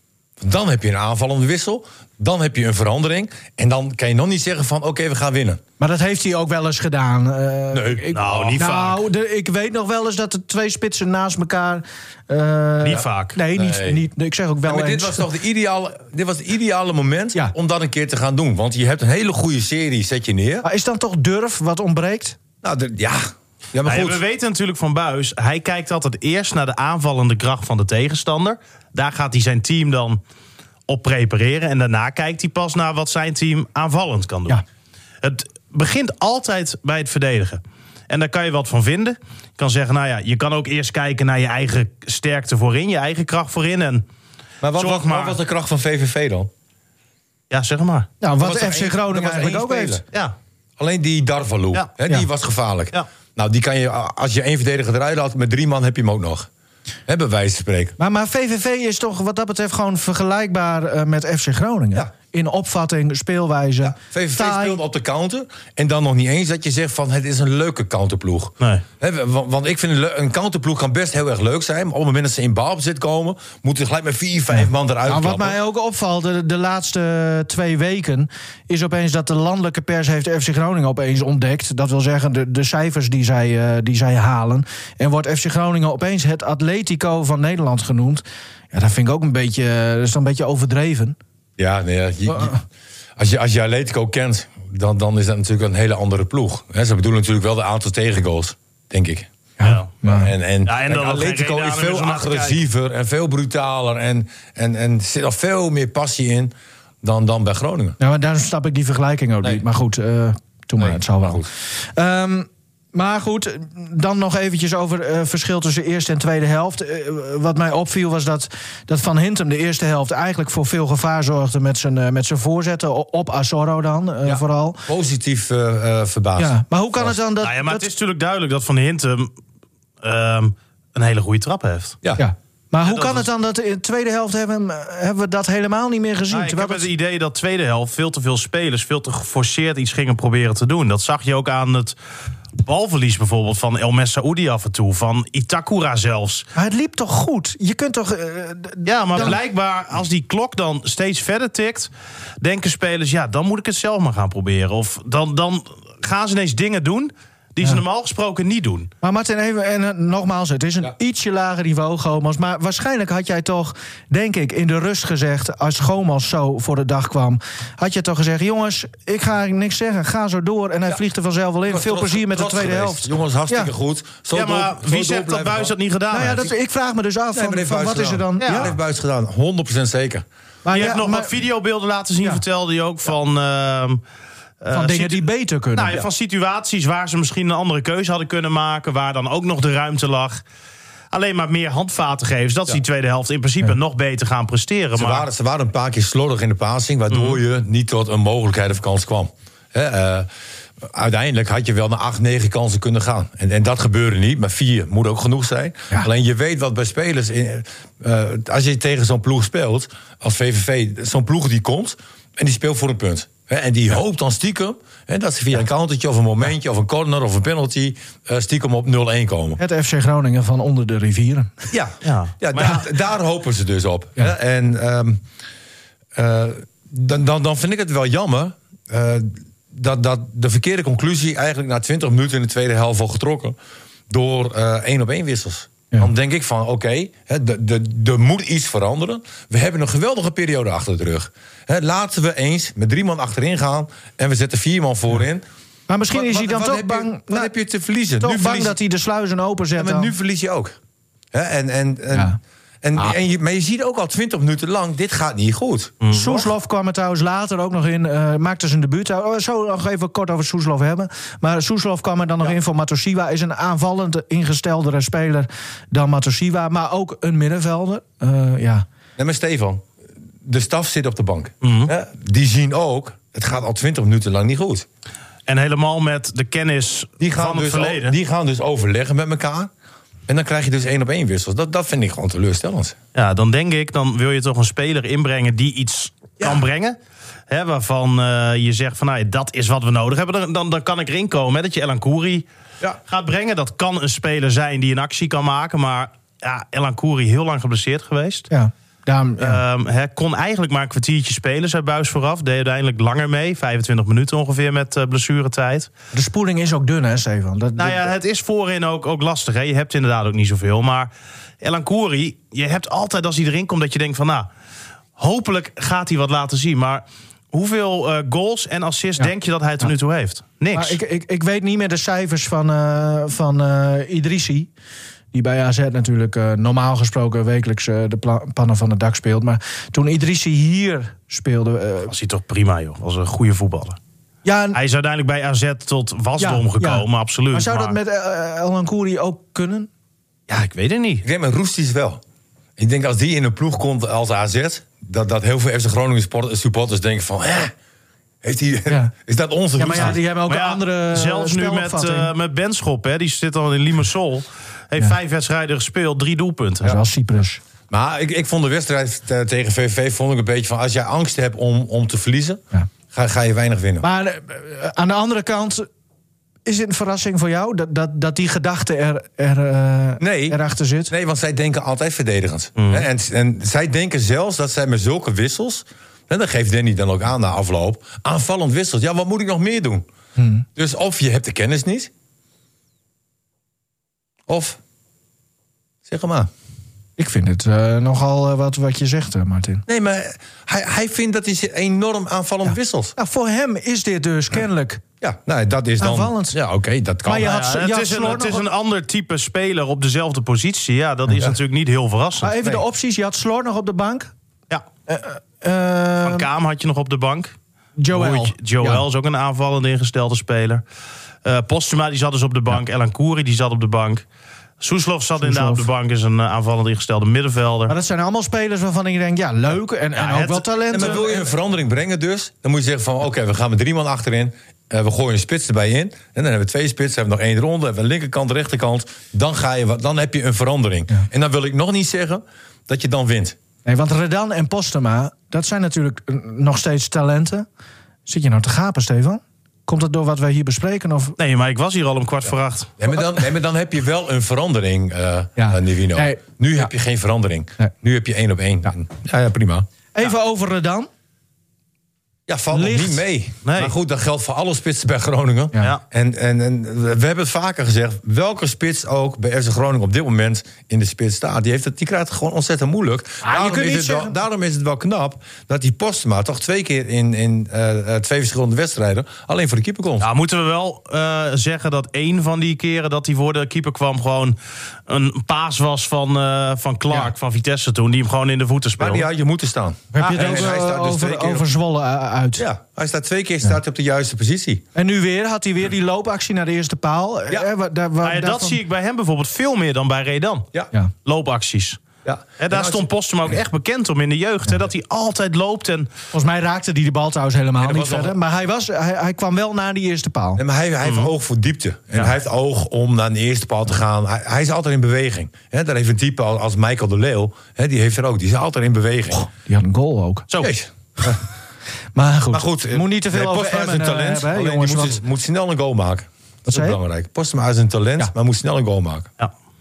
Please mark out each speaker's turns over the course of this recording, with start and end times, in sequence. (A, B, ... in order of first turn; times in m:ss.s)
0:00.4-0:05.6 A
0:05.8-0:15.2 B
0:07.7-0:08.6 A
0:08.1-0:09.0 C
0:12.8-0:13.4 C
0:13.5-0:14.0 A
0:14.6-0:20.6 A
0:20.6-0:22.4 B
0:22.6-0:24.2 A
0:23.8-0:30.2 C
0:30.9-0:34.6 C
0:35.2-0:44.0 C
0:44.6-0:46.5 A
0:44.8-0:45.4 C
0:47.5-0:48.1 C
0:48.2-0:50.0 B
0:48.4-0:50.0 A
0:50.8-0:56.5 A
0:57.1-0:58.0 A
0:58.0-1:04.8 B
1:03.8-1:15.6 A
1:15.0-1:31.2 B
1:31.6-1:32.5 A
1:32.3-1:32.6 B
1:33.2-1:39.3 A
1:39.6-1:40.3 B
1:39.6-1:39.9 C
1:40.0-1:48.0 A
1:40.6-1:42.6 C
1:48.0-1:51.4 B
1:50.8-1:51.5 A
1:51.9-2:04.8 B
2:04.2-2:07.2 A
2:06.4-2:07.9 B
2:07.4-2:09.3 C
2:10.0-2:12.0 C
2:12.2-2:16.9 B
2:12.8-2:13.3 C
2:16.3-2:22.0 C
2:22.6-2:26.5 C
2:26.5-2:29.4 B
2:28.8-2:31.9 C
2:32.4-2:38.9 C
2:39.0-2:53.7 B
2:51.7-2:55.7 A
2:54.3-2:56.5 C
2:56.1-2:58.7 B
2:57.3-3:00.2 A
2:58.4-2:58.7 C
3:00.6-3:01.3 B
3:00.7-3:04.0 C
3:04.6-3:10.4 C
3:04.7-3:06.0 B
3:11.1-3:15.3 C
3:14.9-3:20.3 A
3:17.1-3:17.4 C
3:20.8-3:39.6 A
3:39.6-3:41.7 B
3:41.7-3:45.2 A
3:42.0-3:42.8 C
3:46.1-3:53.6 A
3:54.1-4:05.4 A
4:05.9-4:07.5 B
4:06.1-4:08.8 A
4:08.2-4:10.1 B
4:09.8-4:10.8 A
4:11.3-4:16.0 A
4:16.0-4:16.4 C
4:16.1-4:28.8 B
4:29.2-4:29.9 A
4:30.4-4:34.9 A
4:31.6-4:31.9 C
4:35.5-4:38.2 C
4:37.2-4:39.7 A
4:40.3-4:43.0 A
4:43.1-4:47.0 C
4:47.5-4:52.4 C
4:53.1-4:58.5 C
4:58.5-4:59.6 B
4:59.4-5:05.9 C
5:06.1-5:08.1 B
5:07.8-5:14.5 C
5:15.2-5:21.0 C
5:20.7-5:24.7 B
5:25.3-5:32.1 B
5:32.1-5:34.0 C
5:34.4-5:34.8 B
5:34.7-5:38.0 C
5:36.4-5:39.9 B
5:40.5-5:41.2 C
5:41.2-5:42.2 A
5:42.8-5:47.7 A
5:48.4-5:50.2 A
5:49.8-5:52.3 B
5:50.0-5:57.0 C
5:56.8-5:57.6 B
5:57.9-6:04.0 A
6:04.0-6:05.9 B
6:06.6-6:11.1 B
6:10.2-6:10.6 A
6:11.1-6:20.0 A
6:12.8-6:13.0 C
6:20.4-6:20.6 B
6:20.8-6:22.1 A
6:24.5-6:24.8 A
6:26.0-6:26.5 A
6:27.2-6:29.8 B
6:29.9-6:33.1 A
6:33.2-6:35.0 B
6:35.2-6:37.6 A
6:36.0-6:36.6 B
6:37.2-6:38.6 B
6:37.4-6:42.5 C
6:42.4-6:44.3 B
6:45.1-6:46.5 B
6:46.2-6:47.5 C
6:48.0-6:49.0 B
6:48.1-6:50.8 C
6:51.4-6:54.2 C
6:54.8-6:57.9 C
6:55.4-6:55.8 B
6:57.9-7:01.5 B
7:00.2-7:00.7 C
7:00.9-7:13.6 A
7:13.8-7:17.6 B
7:18.2-7:21.4 B
7:21.4-7:22.9 C
7:23.0-7:29.9 A
7:25.6-7:26.4 B
7:30.1-7:31.1 B
7:32.5-7:50.3 A
7:32.7-7:33.2 B
7:33.6-7:33.9 C
7:43.4-7:44.3 B
7:50.2-7:54.6 C
7:55.1-7:59.3 C
7:59.0-8:01.6 A
8:00.1-8:02.6 B
8:00.2-8:00.8 C
8:02.6-8:04.8 A
8:04.9-8:08.8 B
8:08.2-8:10.7 C
8:11.2-8:12.0 C
8:12.2-8:13.0 A
8:12.6-8:16.1 C
8:16.3-8:20.6 B
8:17.8-8:18.4 A
8:20.6-8:29.4 A
8:21.0-8:21.3 C
8:29.3-8:30.4 B
8:30.6-8:31.4 A
8:32.1-8:35.2 B
8:32.5-8:39.3 A
8:36.7-8:37.0 B